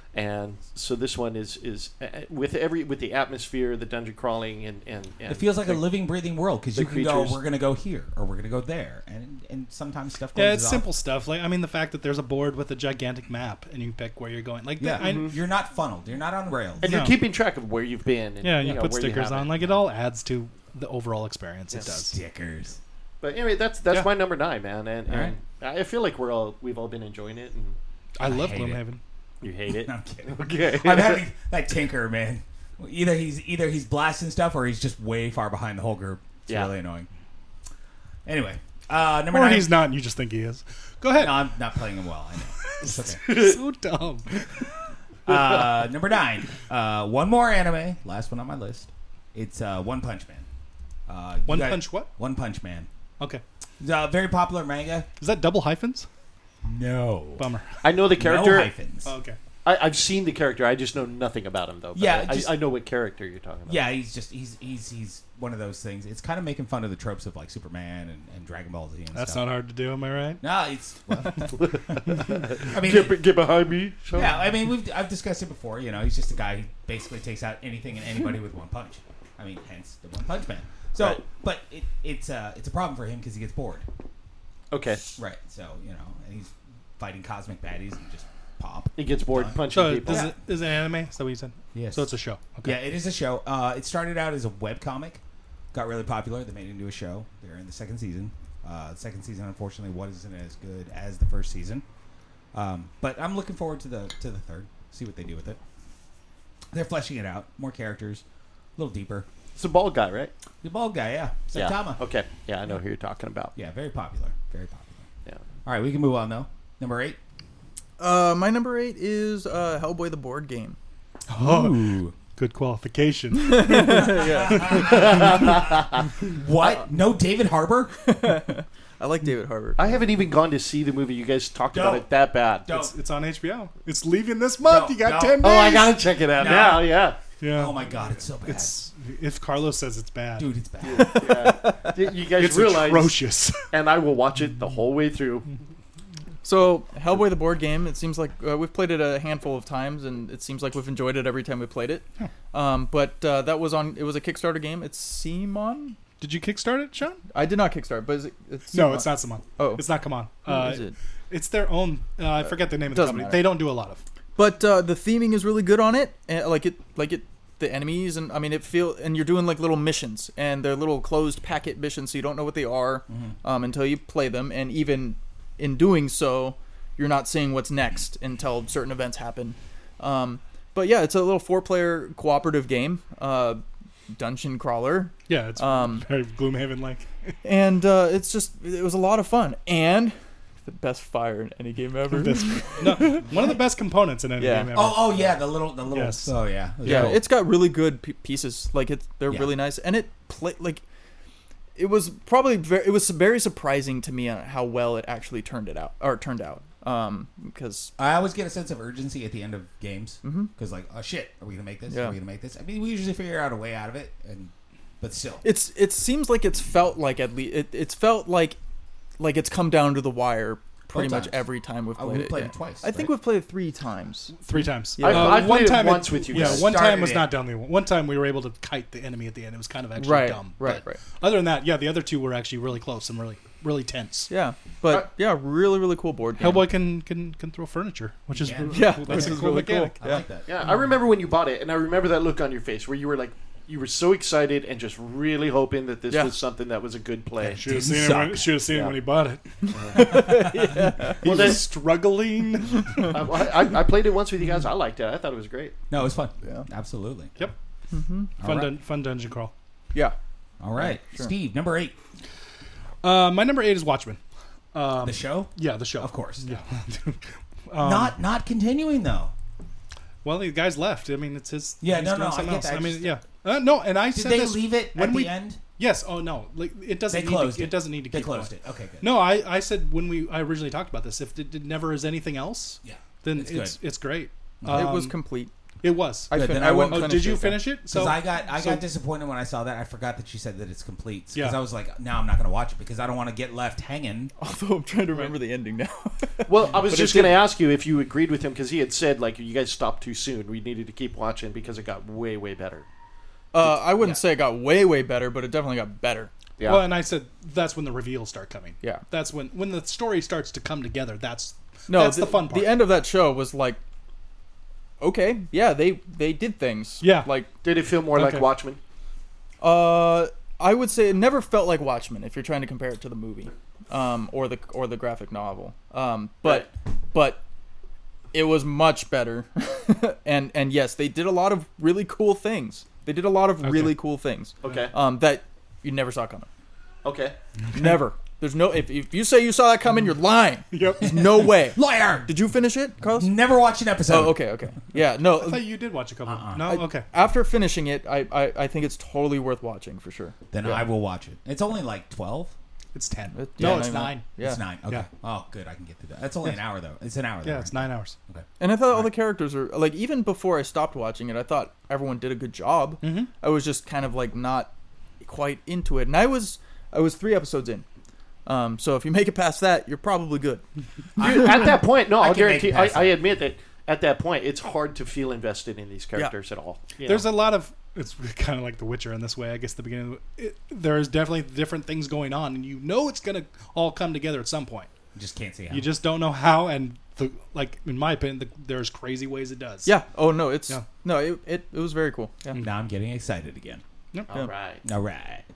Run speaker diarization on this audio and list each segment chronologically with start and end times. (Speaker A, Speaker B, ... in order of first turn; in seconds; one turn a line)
Speaker A: 0.1-5.8
Speaker B: 5.3-10.8
Speaker A: 6.7-7.4
Speaker C: 10.3-15.3
Speaker B: 14.8-16.9
Speaker A: 15.0-15.3
Speaker A: 16.8-19.5
Speaker C: 16.8-17.1
Speaker C: 18.4-22.1
Speaker B: 21.9-22.8
Speaker A: 23.2-27.8
Speaker B: 25.1-25.3
Speaker C: 28.2-29.0
Speaker B: 28.2-28.8
Speaker A: 29.4-31.2
Speaker B: 29.7-37.1
Speaker B: 38.2-39.7
Speaker C: 39.3-41.4
Speaker B: 41.1-43.4
Speaker C: 42.6-44.6
Speaker B: 45.2-50.5
Speaker B: 51.1-52.9
Speaker C: 51.5-52.1
Speaker B: 53.8-55.1
Speaker C: 55.2-56.0
Speaker B: 56.6-57.4
Speaker C: 57.4-57.7
Speaker A: 57.8-58.7
Speaker B: 58.2-59.1
Speaker C: 59.0-59.4
Speaker A: 59.6-63.8
Speaker B: 61.9-62.5
Speaker B: 63.7-69.4
Speaker C: 69.1-70.4
Speaker B: 70.4-73.1
Speaker A: 71.6-74.4
Speaker B: 74.1-83.8
Speaker A: 84.7-85.0
Speaker B: 85.2-90.3
Speaker A: 89.0-90.3
Speaker C: 89.7-92.8
Speaker B: 91.7-92.1
Speaker B: 92.6-95.2
Speaker B: 95.7-101.8
Speaker B: 102.5-105.6
Speaker B: 106.7-108.2
Speaker B: 108.8-109.2
Speaker A: 109.5-110.3
Speaker B: 110.6-112.0
Speaker A: 111.5-113.5
Speaker B: 113.5-115.0
Speaker B: 115.6-117.2
Speaker D: 118.0-120.8
Speaker C: 121.3-125.4
Speaker B: 121.3-122.1
Speaker D: 123.3-124.9
Speaker B: 124.1-128.0
Speaker A: 124.7-126.0
Speaker D: 128.0-129.9
Speaker A: 129.8-132.7
Speaker B: 131.7-132.0
Speaker B: 132.7-132.9
Speaker C: 132.7-136.8
Speaker B: 134.6-135.6
Speaker A: 135.4-137.2
Speaker B: 136.4-136.8
Speaker C: 137.4-137.9
Speaker B: 137.5-138.7
Speaker C: 138.4-140.5
Speaker B: 140.4-141.2
Speaker A: 140.8-143.2
Speaker D: 141.4-141.7
Speaker C: 142.4-143.7
Speaker A: 143.7-145.5
Speaker D: 146.4-156.0
Speaker C: 156.2-157.2
Speaker D: 157.3-159.8
Speaker C: 158.7-164.0
Speaker D: 160.4-160.9
Speaker D: 162.9-163.6
Speaker D: 164.3-186.1
Speaker C: 185.3-187.3
Speaker D: 187.4-193.2
Speaker C: 192.1-197.2
Speaker D: 194.4-194.7
Speaker B: 194.7-197.2
Speaker D: 196.8-200.8
Speaker D: 201.8-207.9
Speaker B: 208.0-215.4
Speaker D: 210.2-210.5
Speaker D: 211.9-212.2
Speaker D: 215.4-218.6
Speaker D: 219.2-224.3
Speaker B: 220.9-221.4
Speaker B: 221.9-223.1
Speaker C: 224.4-234.3
Speaker D: 224.9-225.5
Speaker A: 225.0-226.7
Speaker B: 226.3-227.3
Speaker D: 230.0-231.0
Speaker D: 234.3-236.7
Speaker C: 236.4-240.0
Speaker B: 238.4-239.4
Speaker D: 238.7-240.2
Speaker B: 240.0-240.4
Speaker A: 240.5-247.6
Speaker B: 247.4-248.5
Speaker C: 247.6-253.2
Speaker A: 248.7-248.9
Speaker D: 249.7-251.5
Speaker A: 251.2-251.7
Speaker D: 252.8-253.2
Speaker A: 253.0-255.7
Speaker B: 255.9-257.3
Speaker D: 256.4-256.7
Speaker D: 257.9-258.3
Speaker B: 258.4-258.7
Speaker C: 258.4-259.5
Speaker B: 260.6-261.9
Speaker D: 260.8-261.3
Speaker C: 263.0-264.2
Speaker C: 264.7-268.1
Speaker B: 265.0-266.6
Speaker B: 267.8-269.3
Speaker C: 270.2-285.1
Speaker B: 271.8-273.1
Speaker B: 274.1-275.6
Speaker B: 277.1-279.1
Speaker B: 282.8-283.8
Speaker B: 284.6-284.9
Speaker D: 284.7-285.5
Speaker C: 285.8-288.8
Speaker D: 286.3-287.6
Speaker B: 286.3-294.3
Speaker D: 294.4-297.4
Speaker A: 296.5-302.8
Speaker D: 303.5-306.3
Speaker A: 306.6-306.9
Speaker C: 306.6-312.8
Speaker D: 311.9-313.8
Speaker D: 315.0-317.5
Speaker C: 317.0-317.3
Speaker A: 317.6-318.8
Speaker C: 318.1-318.5
Speaker D: 319.6-327.4
Speaker D: 328.3-336.5
Speaker C: 333.6-333.9
Speaker A: 334.6-334.9
Speaker A: 337.0-337.3
Speaker D: 337.7-343.3
Speaker C: 340.7-341.5
Speaker B: 341.7-342.3
Speaker B: 343.1-344.4
Speaker D: 344.1-345.6
Speaker C: 345.4-347.1
Speaker B: 346.2-346.7
Speaker D: 346.6-350.8
Speaker B: 350.5-352.5
Speaker C: 352.9-354.2
Speaker D: 353.3-354.6
Speaker B: 353.6-359.1
Speaker C: 357.4-358.1
Speaker D: 358.6-367.8
Speaker C: 363.0-363.3
Speaker D: 368.4-370.6
Speaker B: 371.2-373.1
Speaker A: 371.2-377.3
Speaker C: 377.1-384.9
Speaker B: 385.1-385.9
Speaker C: 385.7-389.9
Speaker D: 389.8-392.6
Speaker B: 392.6-393.8
Speaker A: 394.3-394.8
Speaker B: 394.8-395.4